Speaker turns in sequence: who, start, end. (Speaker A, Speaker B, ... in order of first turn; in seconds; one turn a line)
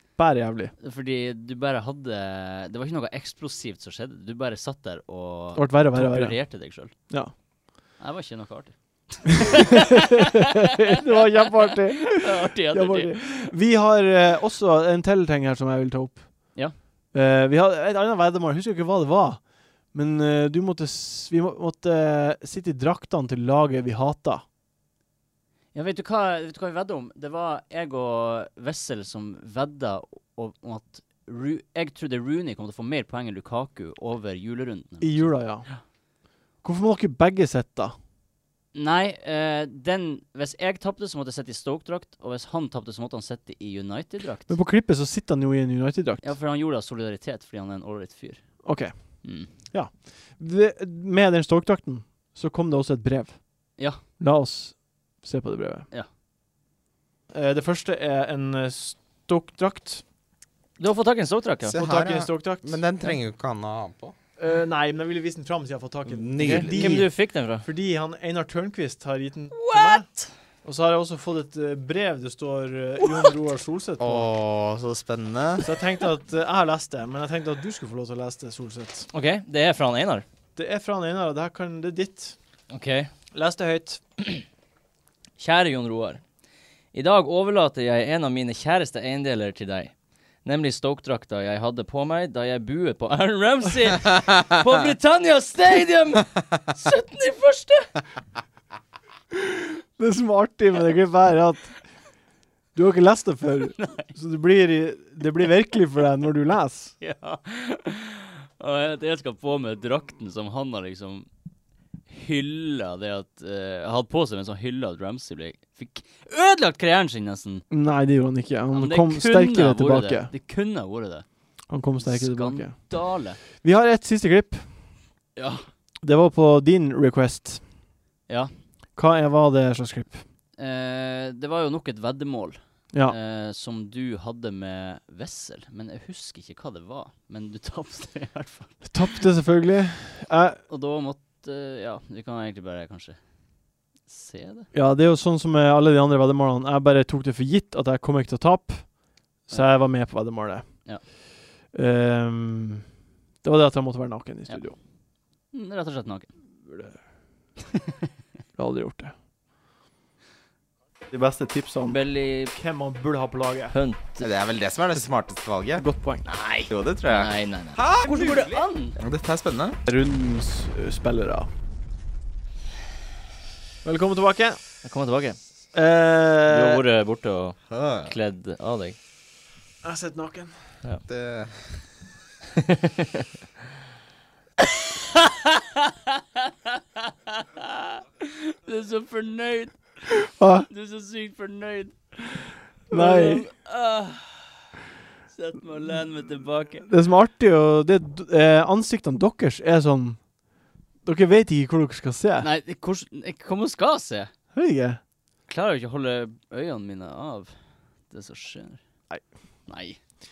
Speaker A: 0.2-0.7
Speaker B: 0.8-6.9
Speaker A: 5.5-7.3
Speaker B: 8.0-10.9
Speaker A: 9.7-10.2
Speaker A: 10.8-24.4
Speaker B: 12.1-13.5
Speaker B: 25.7-35.8
Speaker A: 35.0-35.7
Speaker A: 36.6-38.0
Speaker B: 38.7-44.6
Speaker A: 44.5-46.3
Speaker B: 46.2-48.6
Speaker A: 48.6-55.9
Speaker B: 49.2-49.5
Speaker B: 53.8-54.0
Speaker A: 57.3-60.0
Speaker B: 60.8-61.8
Speaker C: 61.7-64.1
Speaker A: 61.7-62.9
Speaker A: 64.4-70.1
Speaker C: 66.0-67.1
Speaker B: 66.4-67.7
Speaker B: 69.5-70.3
Speaker A: 70.6-74.3
Speaker C: 74.0-75.7
Speaker A: 75.6-79.1
Speaker B: 79.1-80.2
Speaker A: 80.5-82.3
Speaker B: 82.7-83.1
Speaker A: 83.3-84.0
Speaker B: 85.4-86.2
Speaker B: 86.9-97.9
Speaker A: 99.3-101.8
Speaker A: 102.7-106.9
Speaker B: 103.8-104.1
Speaker B: 107.0-111.3
Speaker B: 112.1-117.6
Speaker A: 117.7-120.3
Speaker B: 118.7-121.2
Speaker A: 121.7-123.0
Speaker B: 122.0-123.4
Speaker A: 123.6-124.7
Speaker B: 125.4-125.7
Speaker A: 126.0-127.6
Speaker A: 128.9-130.2
Speaker B: 130.6-139.2
Speaker A: 138.8-140.6
Speaker B: 140.7-143.2
Speaker B: 144.1-144.7
Speaker A: 144.7-151.1
Speaker A: 151.7-152.8
Speaker A: 153.4-154.8
Speaker B: 155.5-156.3
Speaker A: 156.6-156.9
Speaker A: 158.5-159.1
Speaker A: 161.1-163.7
Speaker B: 161.8-162.5
Speaker B: 163.7-164.3
Speaker C: 164.2-165.8
Speaker A: 165.8-166.2
Speaker B: 166.2-169.0
Speaker C: 166.7-169.8
Speaker A: 169.9-171.5
Speaker A: 173.8-174.6
Speaker B: 174.8-175.4
Speaker A: 175.7-176.8
Speaker B: 176.5-179.0
Speaker C: 177.7-178.1
Speaker A: 179.8-180.5
Speaker C: 181.1-181.9
Speaker B: 185.1-185.8
Speaker B: 188.2-190.1
Speaker A: 190.2-190.7
Speaker B: 190.7-194.6
Speaker A: 192.9-193.5
Speaker B: 195.3-196.9
Speaker A: 196.8-200.3
Speaker A: 201.0-202.5
Speaker B: 202.4-204.3
Speaker A: 204.5-205.0
Speaker B: 205.5-207.5
Speaker B: 208.1-208.8
Speaker B: 209.7-210.0